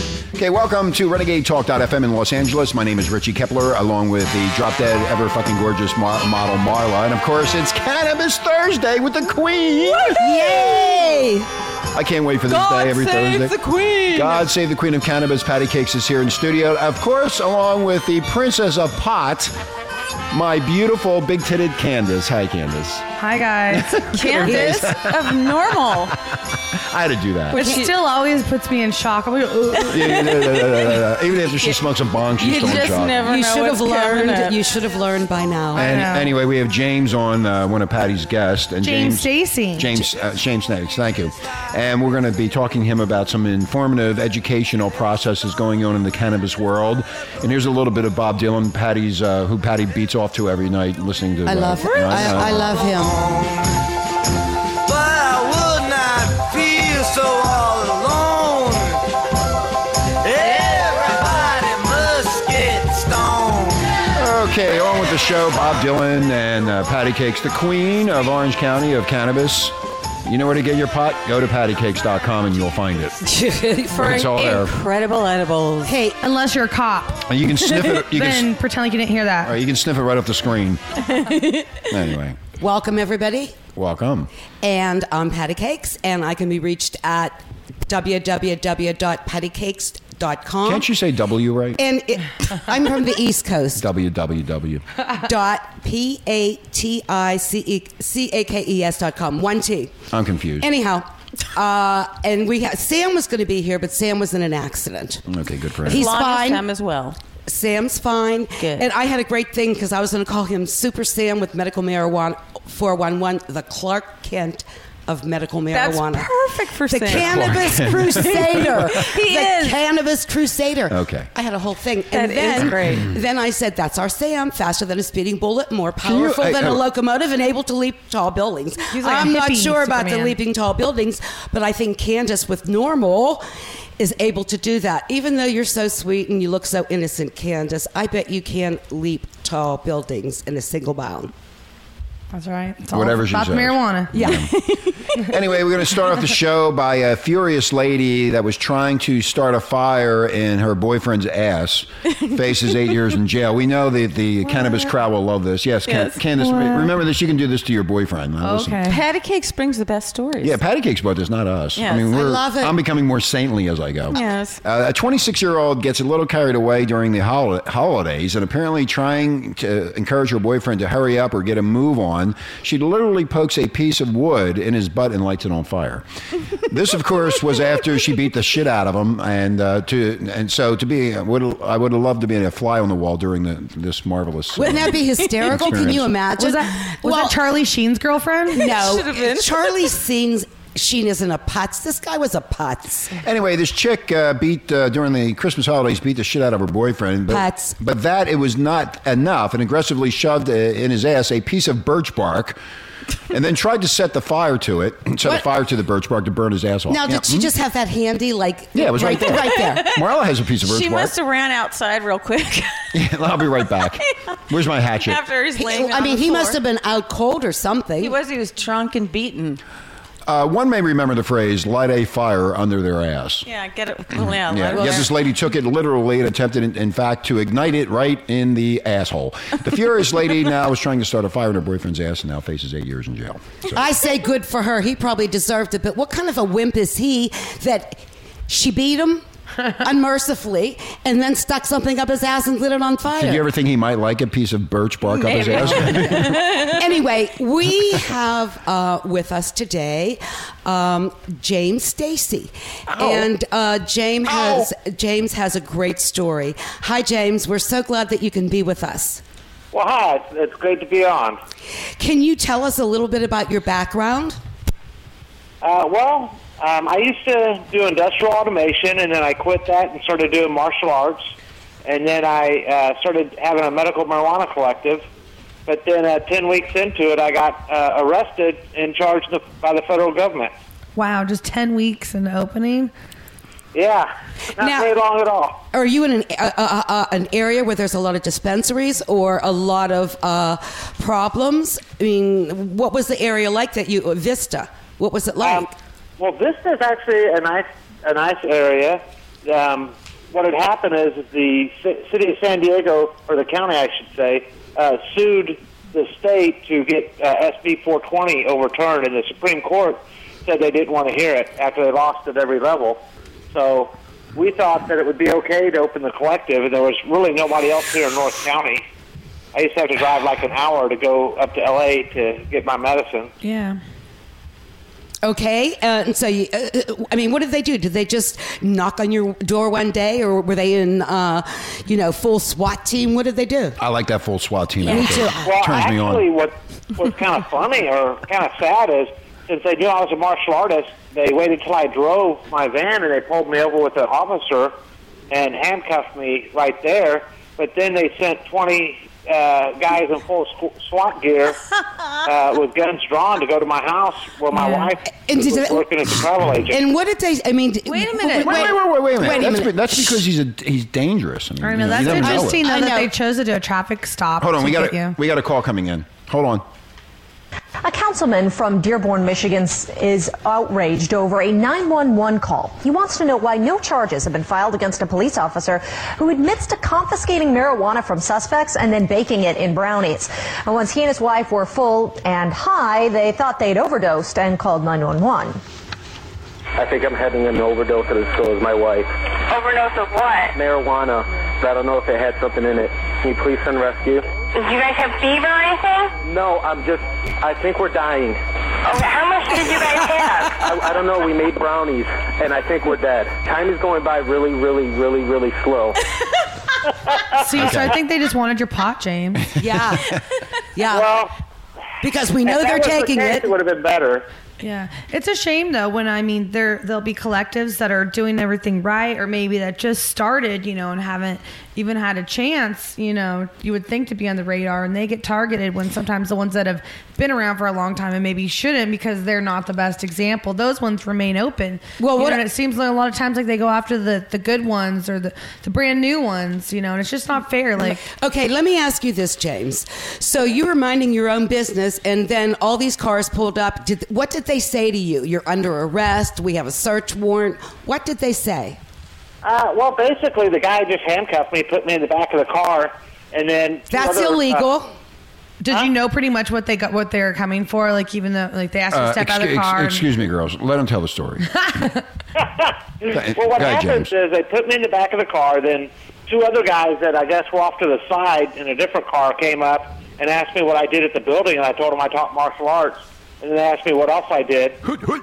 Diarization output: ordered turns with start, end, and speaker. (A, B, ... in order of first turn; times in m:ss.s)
0:00.4-0:10.2 A
0:10.1-0:11.5 B
0:10.2-0:11.0 C
0:11.9-0:13.6 A
0:12.5-0:14.4 C
0:14.1-0:19.5 A
0:20.3-0:23.1 A
0:23.2-0:24.0 D
0:23.7-0:26.1 A
0:24.0-0:26.1 C
0:24.3-0:25.1 B
0:26.7-0:27.6 A
0:27.5-0:30.4 D
0:27.5-0:27.9 C
0:27.6-0:27.9 B
0:29.9-0:33.3 A
0:30.0-0:31.0 C
0:32.4-0:35.9 B
0:32.4-0:34.6 C
0:35.8-0:52.8 A
0:35.8-0:36.3 D
0:38.8-0:40.0 D
0:51.5-0:53.2 B
0:52.8-0:53.8 E
0:54.9-0:59.0 E
1:00.2-1:04.0 E
1:04.2-1:13.2 A
1:13.2-1:14.3 B
1:13.9-1:16.0 C
1:13.9-1:14.7 A
1:15.8-1:16.2 B
1:16.2-1:19.6 D
1:17.3-1:18.5 A
1:19.4-1:20.8 A
1:21.0-1:21.9 C
1:21.9-1:22.4 A
1:22.6-1:23.6 B
1:23.8-1:24.3 A
1:24.6-1:30.9 B
1:30.6-1:31.8 A
1:31.8-1:33.9 B
1:33.8-1:34.8 A
1:35.1-1:40.0 B
1:40.1-1:40.7 A
1:40.6-1:45.2 B
1:45.3-1:46.1 A
1:45.8-1:46.6 B
1:45.9-1:47.2 C
1:47.5-1:56.3 B
1:48.6-1:48.9 C
1:55.7-1:59.8 C
1:56.8-2:13.4 B
1:57.1-1:59.0 A
2:00.9-2:01.3 A
2:02.1-2:03.1 C
2:06.0-2:06.8 A
2:08.9-2:10.4 D
2:14.0-2:21.3 B
2:22.3-2:24.2 D
2:22.9-2:24.5 A
2:24.1-2:24.5 B
2:24.5-2:25.2 C
2:25.2-2:38.8 A
2:35.9-2:36.2 C
2:36.4-2:36.9 D
2:38.4-2:39.0 D
2:38.8-2:40.6 C
2:40.4-2:56.0 A
2:41.8-2:42.1 C
2:41.9-2:42.8 B
2:44.1-2:44.6 C
2:56.6-3:06.2 A
3:04.6-3:07.4 B
3:06.4-3:08.7 D
3:08.5-3:13.2 B
3:08.6-3:09.7 C
3:13.2-3:22.6 A
3:17.3-3:17.8 B
3:23.3-3:27.5 A
3:26.9-3:29.9 B
3:28.8-3:31.2 A
3:29.0-3:32.9 C
3:32.9-3:35.2 A
3:35.0-3:36.6 C
3:35.5-3:38.2 B
3:38.0-3:39.6 C
3:40.3-3:43.5 A
3:43.4-3:45.1 C
3:44.1-3:53.8 A
3:44.7-3:45.1 B
3:53.7-4:03.5 B
4:03.1-4:06.5 A
4:05.1-4:06.9 C
4:05.5-4:19.2 B
4:12.9-4:13.3 A
4:14.3-4:14.6 A
4:19.7-4:21.4 F
4:22.0-4:24.4 B
4:25.6-4:31.3 F
4:31.8-4:35.0 F
4:35.7-4:40.5 F
4:41.0-4:42.9 D
4:43.7-4:45.6 F
4:44.6-4:44.9 B
4:45.7-4:55.7 B
4:55.4-4:55.7 F
4:56.2-5:13.0 F
5:13.5-5:18.8 F
5:19.5-5:23.3 F
5:23.4-5:23.8 D
5:25.2-5:33.8 B
5:33.8-5:36.3 A
5:34.8-5:35.5 B
5:35.4-5:44.7 F
5:45.3-5:51.6 F
5:52.2-5:56.8 F
5:54.5-5:54.9 D
5:55.3-5:55.9 B
5:56.7-6:00.2 B
5:57.9-5:58.7 C
5:58.1-5:58.4 D
5:58.3-6:02.6 A
6:01.6-6:05.2 D
6:02.0-6:03.1 B
6:04.4-6:06.6 A
6:07.8-6:25.6 G
6:26.8-6:29.1 H
6:29.5-6:30.6 I
6:30.5-6:34.3 H
6:34.5-6:36.2 I
6:36.2-6:38.4 H
6:38.8-6:40.5 I
6:40.3-6:46.0 H
6:47.4-6:49.5 D
6:49.6-6:50.2 B
6:50.8-6:51.2 B
6:50.9-6:51.3 F
6:52.0-6:53.5 B
6:52.4-6:54.3 F
6:54.6-7:18.0 D
7:12.0-7:12.4 B
7:17.8-7:28.8 B
7:29.4-7:34.7 F
7:33.9-7:34.9 B
7:35.6-7:40.1 D
7:38.9-7:41.8 A
7:42.4-7:54.8 F
7:43.1-7:44.1 A